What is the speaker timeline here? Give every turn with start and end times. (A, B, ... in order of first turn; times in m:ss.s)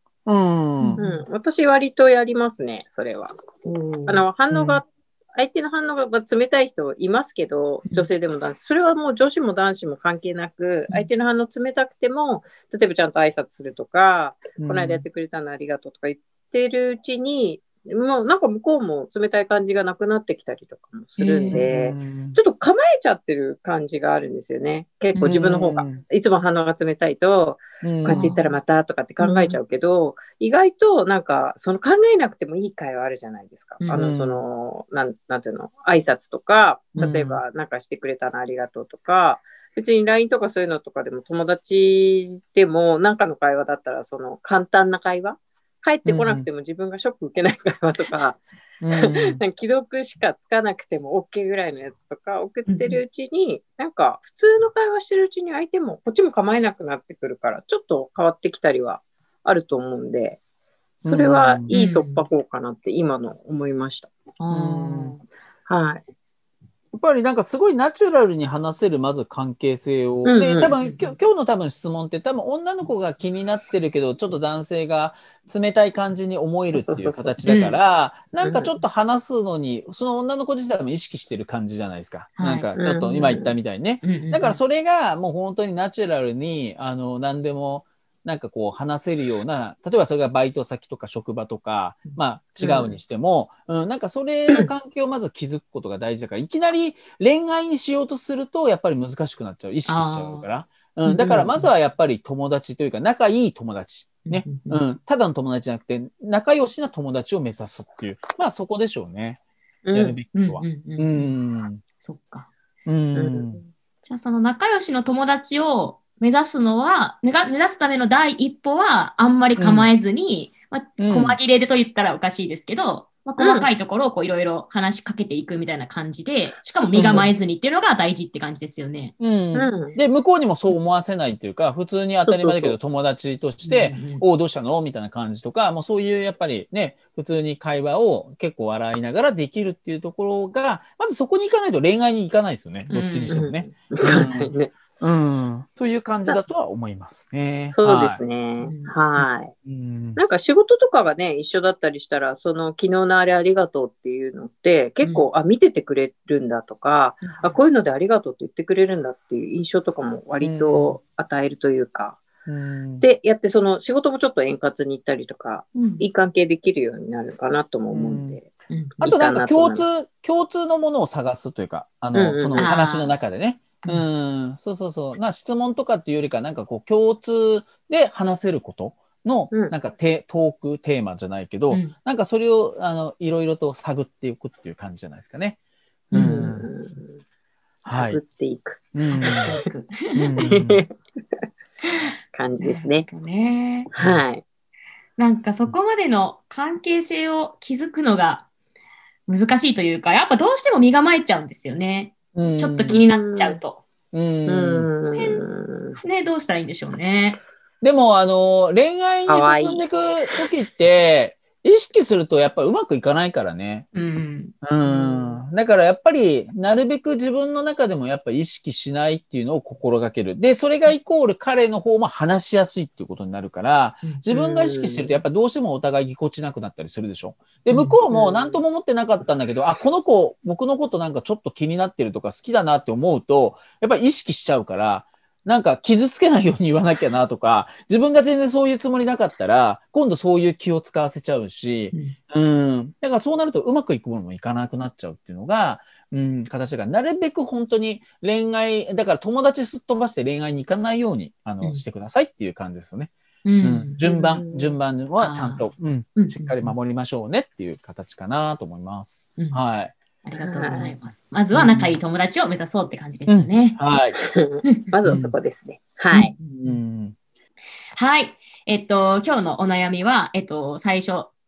0:00.2-0:01.0 A
0:00.8-0:01.2 B
0:01.0-0:03.4 C
0:03.6-0:04.2 B
0:04.1-0:04.8 C
0:04.5-0:04.8 A
0:05.4-0:48.4 C
0:14.6-0:15.0 A
0:21.2-0:21.7 B
0:21.4-0:22.4 A
0:25.2-0:26.0 A
0:27.8-0:28.3 A
0:28.0-0:28.4 B
0:29.2-0:29.6 B
0:33.9-0:34.4 A
0:36.9-0:37.2 A
0:37.0-0:37.3 B
0:46.0-0:46.5 A
0:48.8-0:49.4 A
0:49.0-1:00.4 C
0:52.7-0:53.0 B
1:01.0-1:01.7 A
1:01.0-1:04.1 C
1:01.7-1:02.2 B
1:04.4-1:05.2 B
1:04.5-1:05.2 A
1:05.7-1:06.0 C
1:06.9-1:49.4 A
1:10.2-1:10.8 C
1:10.8-1:11.1 B
1:16.7-1:17.4 C
1:17.4-1:17.8 B
1:18.4-1:18.8 C
1:22.4-1:22.7 B
1:22.8-1:23.5 C
1:24.0-1:24.6 B
1:32.6-1:32.9 C
1:39.8-1:40.4 B
1:41.0-1:41.7 B
1:44.2-1:44.8 B
1:49.8-1:50.2 C
1:49.9-1:51.8 A
1:50.3-1:51.3 B
1:52.0-1:52.5 B
1:52.8-1:53.6 A
1:53.1-1:53.6 C
1:54.0-2:09.2 B
1:59.6-1:59.9 A
2:01.0-2:01.4 A
2:03.4-2:03.7 C
2:06.9-2:07.3 A
2:09.2-2:28.2 A
2:09.5-2:10.0 C
2:12.2-2:12.8 C
2:13.6-2:14.2 B
2:22.9-2:23.4 B
2:23.3-2:24.7 C
2:27.7-2:29.5 C
2:28.6-2:28.9 B
2:29.2-2:30.2 A
2:30.2-2:42.2 C
2:35.0-2:35.3 B
2:37.2-2:37.6 B
2:40.4-2:41.0 A
2:42.4-2:43.0 A
2:43.0-2:48.5 C
2:45.7-2:46.0 B
2:47.9-2:48.4 A
2:49.0-2:49.8 C
2:49.0-3:05.6 A
2:52.1-2:53.1 C
2:52.6-2:53.0 B
3:06.1-3:06.7 A
3:06.1-3:06.5 B
3:06.2-3:07.2 C
3:07.9-3:08.2 A
3:07.9-3:08.8 C
3:08.9-3:09.5 A
3:09.1-3:10.2 B
3:10.1-3:10.8 A
3:10.4-3:10.9 C
3:12.3-3:13.1 C
3:12.6-3:13.9 B
3:13.9-3:14.4 C
3:14.0-3:14.2 A
3:15.2-3:18.4 B
3:19.3-3:23.8 B
3:22.3-3:23.0 A
3:22.9-3:23.6 C
3:24.1-3:24.9 A
3:24.5-3:26.0 C
3:25.1-3:25.4 B
3:26.0-3:27.4 B
3:27.8-3:33.9 A
3:29.3-3:29.8 C
3:33.9-3:34.5 B
3:34.6-4:19.9 A
3:34.8-3:35.4 C
3:44.3-3:45.2 C
3:47.7-3:48.0 B
3:48.1-3:48.6 C
4:13.4-4:14.0 B
4:14.1-4:14.8 C
4:15.2-4:15.6 B
4:16.2-4:16.7 B
4:20.2-4:23.8 B
4:20.4-4:20.9 C
4:21.5-4:22.0 A
4:23.3-4:24.2 A
4:24.2-4:26.3 C
4:24.6-4:24.9 B
4:25.0-4:25.3 A
4:26.1-4:26.8 B
4:26.5-4:27.1 A
4:27.9-4:31.3 B